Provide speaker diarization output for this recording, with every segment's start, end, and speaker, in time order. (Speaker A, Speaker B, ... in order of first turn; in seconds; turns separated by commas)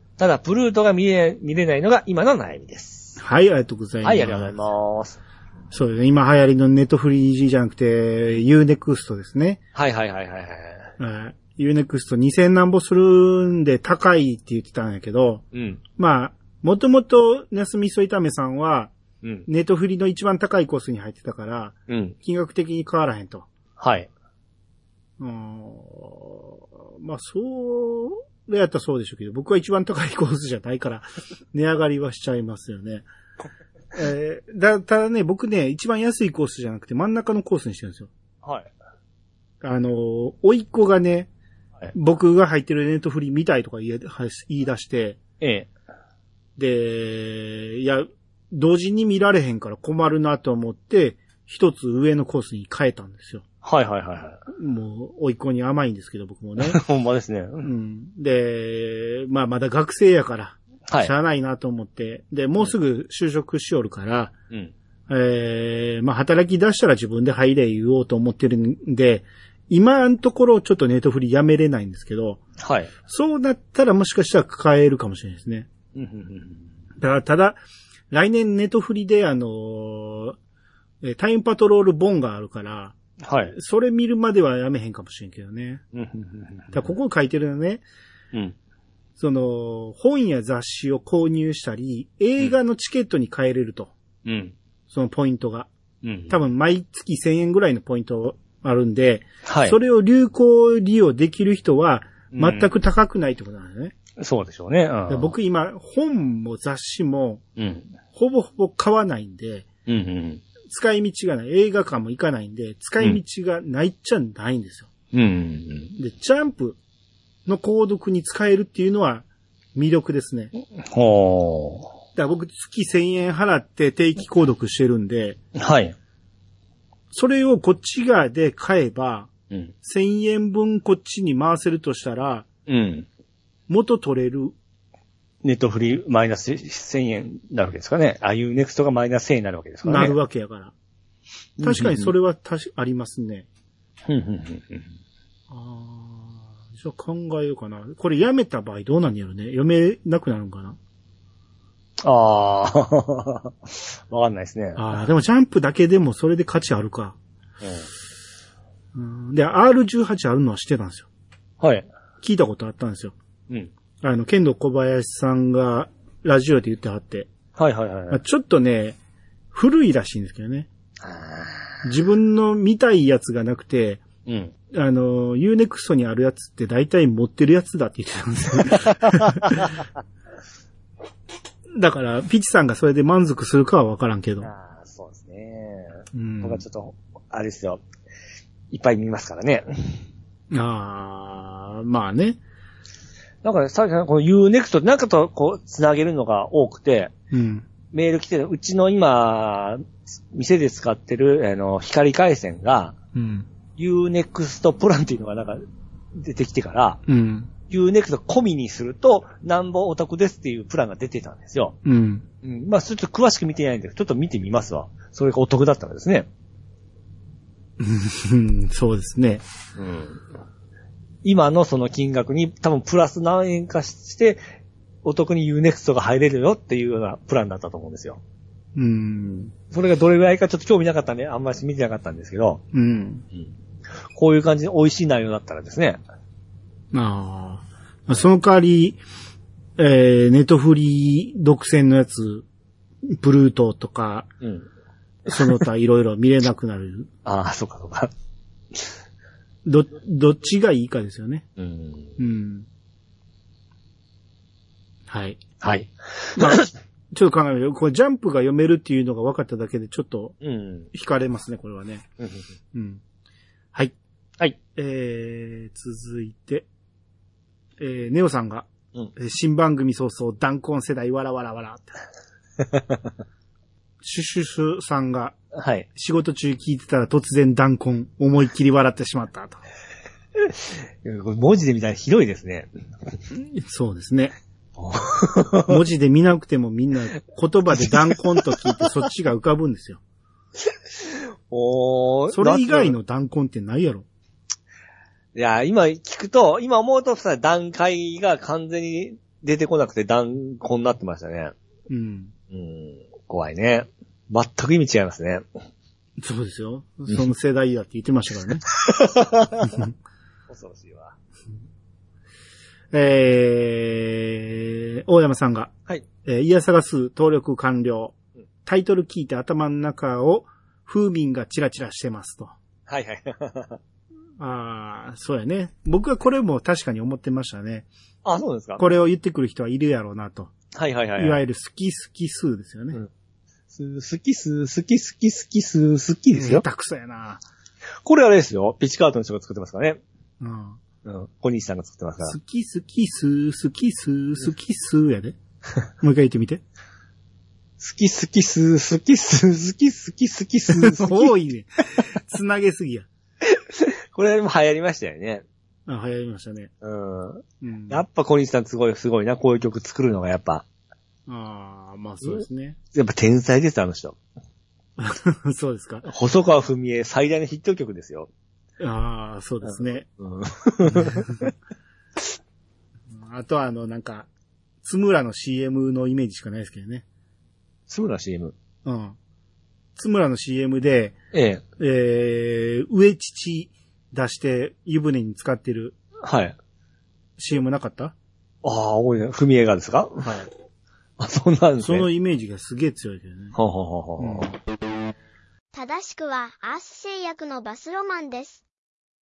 Speaker A: 0.2-3.2, Speaker B: 3.2-4.5, Speaker A: 4.0-5.2, Speaker B: 5.7-9.6, Speaker A: 9.7-10.9, Speaker B: 11.0-15.4, Speaker A: 15.5-15.8, Speaker B: 16.0-18.9, Speaker A: 19.2-19.5, Speaker B: 19.4-23.5, Speaker A: 21.9-22.1, Speaker A: 23.8-24.1, Speaker B: 25.2-33.1, Speaker B: 33.9-38.1, Speaker A: 38.4-38.7, Speaker B: 39.6-41.3, Speaker B: 41.9-45.2, Speaker A: 45.4-45.7, Speaker B: 46.6-53.4, Speaker A: 53.6-54.4, Speaker B: 54.5-56.8, Speaker A: 56.6-57.7, Speaker B: 57.6-64.3, Speaker B: 65.1-72.4, Speaker A: 72.6-72.9, Speaker B: 73.1-75.7, Speaker A: 75.9-76.6, Speaker B: 77.0-77.6, Speaker B: 78.1-80.4, Speaker B: 81.0-83.0, Speaker A: 83.2-83.5, Speaker B: 83.5-85.8, Speaker A: 85.9-86.7, Speaker B: 86.7-87.8, Speaker B: 89.2-93.9, Speaker A: 94.2-94.5, Speaker B: 94.9-95.7, Speaker A: 96.0-96.3, Speaker B: 96.3-103.9, Speaker A: 99.4-99.8, Speaker A: 102.3-102.7, Speaker A: 104.2-105.3, Speaker B: 105.1-107.4, Speaker A: 107.6-107.9, Speaker B: 108.1-109.7, Speaker A: 109.9-110.4, Speaker B: 110.7-114.9, Speaker A: 115.1-115.9, Speaker B: 116.0-116.8, Speaker B: 117.5-120.5, Speaker A: 120.8-121.9, Speaker B: 122.2-125.4, Speaker A: 125.5-125.9, Speaker B: 127.1-129.3, Speaker B: 129.8-132.5, Speaker A: 132.7-133.1, Speaker B: 133.7-134.5, Speaker A: 135.4-140.1, Speaker B: 139.8-140.7, Speaker A: 141.6-142.1, Speaker B: 141.6-143.5, Speaker A: 144.1-144.9, Speaker B: 145.5-150.8, Speaker A: 152.0-155.0, Speaker B: 154.8-157.2, Speaker B: 158.9-161.1, Speaker A: 161.6-161.9, Speaker B: 162.2-163.1, Speaker B: 164.0-167.3, Speaker A: 167.6-168.2, Speaker B: 168.1-169.0, Speaker B: 169.5-170.7, Speaker A: 171.0-171.8, Speaker B: 171.8-174.0, Speaker A: 174.2-174.5, Speaker B: 174.7-179.7, Speaker A: 178.9-179.7, Speaker B: 181.7-184.5, Speaker A: 184.4-187.8, Speaker B: 186.1-186.6, Speaker A: 188.7-190.0, Speaker B: 190.5-192.4, Speaker A: 193.4-197.1, Speaker B: 197.3-197.6, Speaker A: 197.9-202.9, Speaker B: 203.1-203.5, Speaker A: 203.8-207.0, Speaker B: 207.1-207.5, Speaker A: 207.7-211.8, Speaker B: 211.8-212.2, Speaker A: 212.4-216.3, Speaker B: 217.8-219.4, Speaker A: 219.8-220.2, Speaker A: 221.2-224.4, Speaker A: 225.0-228.2, Speaker B: 228.8-229.5, Speaker A: 229.7-232.6, Speaker B: 232.7-233.2, Speaker A: 234.1-236.0, Speaker B: 236.9-239.0, Speaker B: 239.8-242.4, Speaker B: 243.1-244.3, Speaker A: 244.4-244.7, Speaker B: 245.3-247.1, Speaker A: 245.3-245.6, Speaker A: 247.2-248.1, Speaker B: 249.6-251.4, Speaker A: 251.6-252.2, Speaker B: 252.2-252.7, Speaker B: 255.1-255.4, Speaker A: 255.6-256.7, Speaker B: 256.4-260.4, Speaker A: 260.4-260.9, Speaker B: 260.9-262.0, Speaker A: 262.2-262.4, Speaker B: 262.7-263.0, Speaker B: 264.7-266.7, Speaker B: 267.8-272.0, Speaker A: 272.7-273.0, Speaker B: 274.0-275.3, Speaker A: 275.5-275.9, Speaker B: 275.9-279.6, Speaker A: 280.4-282.7, Speaker B: 283.3-284.3, Speaker A: 284.8-285.8, Speaker B: 285.6-290.0, Speaker A: 287.7-288.8, Speaker A: 290.6-293.0, Speaker B: 292.3-294.1, Speaker A: 295.3-301.5, Speaker B: 301.9-302.3, Speaker A: 302.5-305.4, Speaker B: 306.2-308.6, Speaker A: 308.7-309.9, Speaker A: 310.5-311.1, Speaker B: 312.9-315.7, Speaker B: 316.2-318.1, Speaker B: 318.6-322.5, Speaker A: 322.9-323.8, Speaker B: 324.4-327.9, Speaker A: 328.2-328.8, Speaker B: 328.8-330.5, Speaker A: 330.7-331.4, Speaker B: 331.2-333.0, Speaker A: 333.7-336.6, Speaker B: 336.3-337.4, Speaker A: 338.0-340.0, Speaker B: 340.4-340.8, Speaker A: 341.0-342.4, Speaker B: 342.2-345.4, Speaker B: 346.0-346.6, Speaker A: 347.8-351.3, Speaker B: 350.7-353.1, Speaker A: 353.4-355.4, Speaker B: 355.9-356.7, Speaker A: 356.8-360.6, Speaker B: 357.6-358.0, Speaker B: 361.3-362.8, Speaker A: 362.9-364.2, Speaker B: 365.0-366.1, Speaker A: 366.0-368.3, Speaker B: 368.8-370.1, Speaker A: 370.2-371.5, Speaker B: 371.0-371.4, Speaker B: 373.1-374.3, Speaker B: 374.8-377.0, Speaker A: 377.9-378.5, Speaker B: 378.8-379.2, Speaker B: 380.0-381.1, Speaker A: 381.3-381.6, Speaker B: 381.8-385.9, Speaker A: 386.2-386.6, Speaker B: 387.4-388.1, Speaker A: 388.6-390.4, Speaker A: 391.2-392.1, Speaker B: 391.8-393.6, Speaker A: 393.5-394.5, Speaker B: 394.2-394.5, Speaker C: 395.7-398.6